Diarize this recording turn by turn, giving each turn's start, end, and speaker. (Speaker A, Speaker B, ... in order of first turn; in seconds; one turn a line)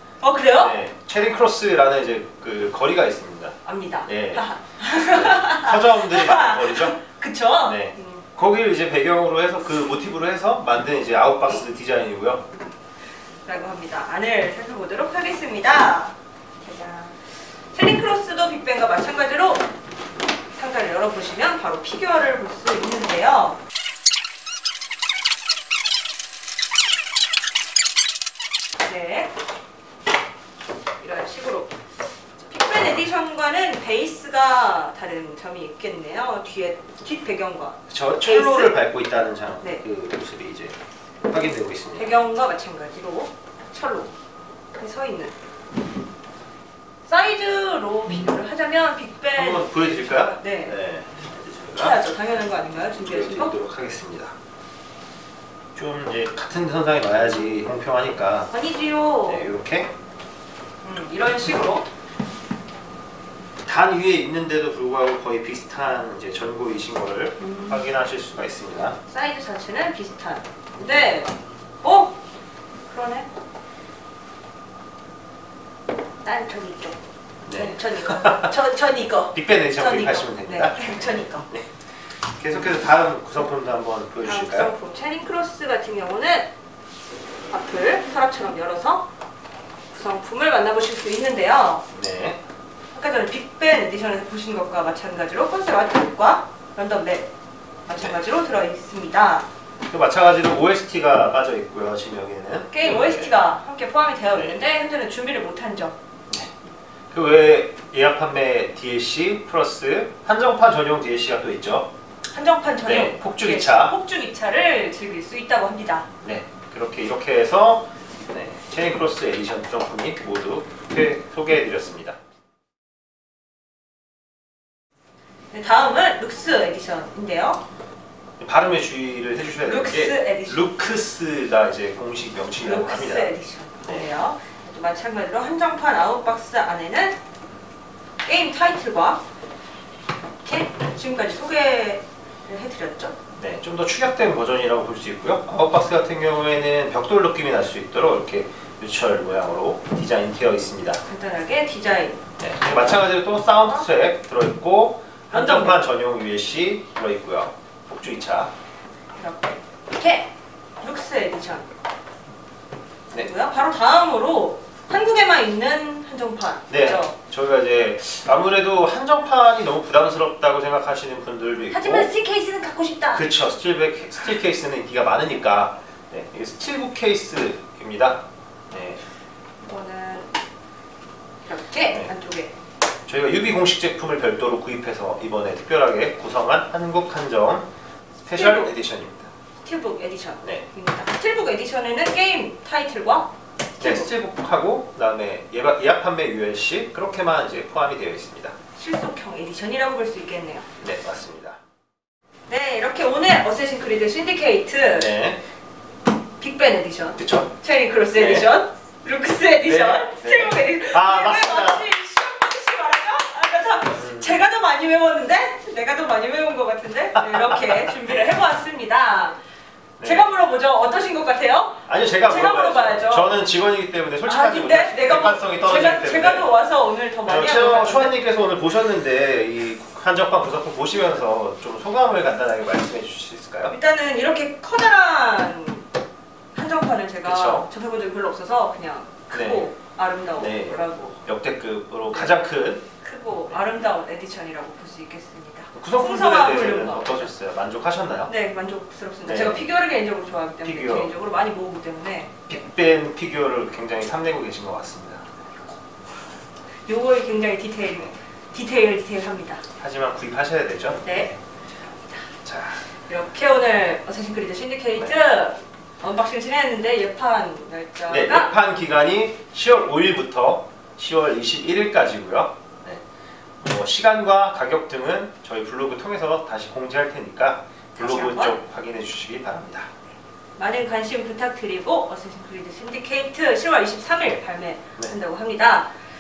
Speaker A: 0.2-0.8
Speaker B: 0.6-7.0
Speaker A: 3.6-8.3
Speaker B: 7.6-12.4
Speaker A: 13.4-19.7
Speaker A: 20.6-23.6
Speaker A: 28.8-29.3
Speaker A: 31.0-31.8
Speaker A: 32.4-38.8
Speaker B: 37.9-42.2
Speaker A: 42.0-44.1
Speaker A: 44.8-45.3
Speaker A: 47.1-50.8
Speaker B: 49.4-52.0
Speaker A: 51.7-53.5
Speaker B: 53.0-54.4
Speaker B: 55.8-58.5
Speaker A: 58.5-59.5
Speaker B: 59.2-59.9
Speaker A: 60.8-61.9
Speaker B: 63.6-69.0
Speaker A: 67.4-67.8
Speaker A: 69.1-72.2
Speaker A: 72.9-73.3
Speaker A: 76.2-77.0
Speaker B: 77.5-78.5
Speaker A: 77.5-81.5
Speaker B: 79.3-81.7
Speaker B: 82.3-84.7
Speaker A: 84.2-86.5
Speaker A: 87.5-89.1
Speaker A: 89.9-91.9
Speaker B: 91.9-92.4
Speaker A: 92.9-97.3
Speaker A: 97.9-99.5
Speaker B: 99.9-103.3
Speaker A: 102.7-106.0
Speaker B: 104.3-104.6
Speaker B: 106.3-106.5
Speaker B: 107.1-111.9
Speaker A: 112.3-116.1
Speaker B: 112.8-114.0
Speaker B: 116.2-122.2
Speaker A: 125.5-127.6
Speaker B: 128.4-134.1
Speaker A: 129.6-130.7
Speaker A: 132.6-137.2
Speaker A: 138.2-139.2
Speaker A: 140.4-143.2
Speaker B: 143.4-151.0
Speaker A: 151.0-152.2
Speaker B: 152.4-158.5
Speaker A: 155.3-155.8
Speaker A: 159.2-161.7
Speaker A: 163.1-167.1
Speaker B: 166.7-172.1
Speaker A: 171.7-173.3
Speaker B: 173.1-179.0
Speaker A: 179.6-180.3
Speaker A: 181.4-182.5
Speaker B: 183.1-187.7
Speaker B: 188.2-189.3
Speaker A: 188.3-188.7
Speaker A: 189.6-194.1
Speaker B: 193.8-198.6
Speaker A: 198.8-200.7
Speaker B: 200.8-201.6
Speaker A: 202.5-205.1
Speaker B: 204.9-205.4
Speaker A: 206.4-219.4
Speaker B: 207.2-207.5
Speaker B: 208.1-208.5
Speaker B: 209.6-211.9
Speaker B: 213.9-214.4
Speaker B: 217.2-218.2
Speaker B: 220.0-220.3
Speaker A: 220.0-223.3
Speaker B: 221.9-226.5
Speaker A: 224.2-228.2
Speaker B: 227.3-233.8
Speaker A: 233.7-235.9
Speaker A: 236.5-241.2
Speaker B: 237.2-237.7
Speaker B: 239.3-239.7
Speaker B: 240.4-242.8
Speaker A: 242.1-242.5
Speaker A: 243.0-247.3
Speaker B: 245.7-248.3
Speaker A: 248.3-252.4
Speaker B: 249.2-249.7
Speaker B: 250.6-251.1
Speaker B: 252.5-255.2
Speaker A: 256.9-259.6
Speaker B: 259.8-261.4
Speaker A: 261.0-261.3
Speaker B: 262.4-262.8
Speaker A: 263.1-268.5
Speaker B: 268.1-273.0
Speaker B: 273.6-279.9
Speaker A: 278.0-278.6
Speaker A: 280.6-285.9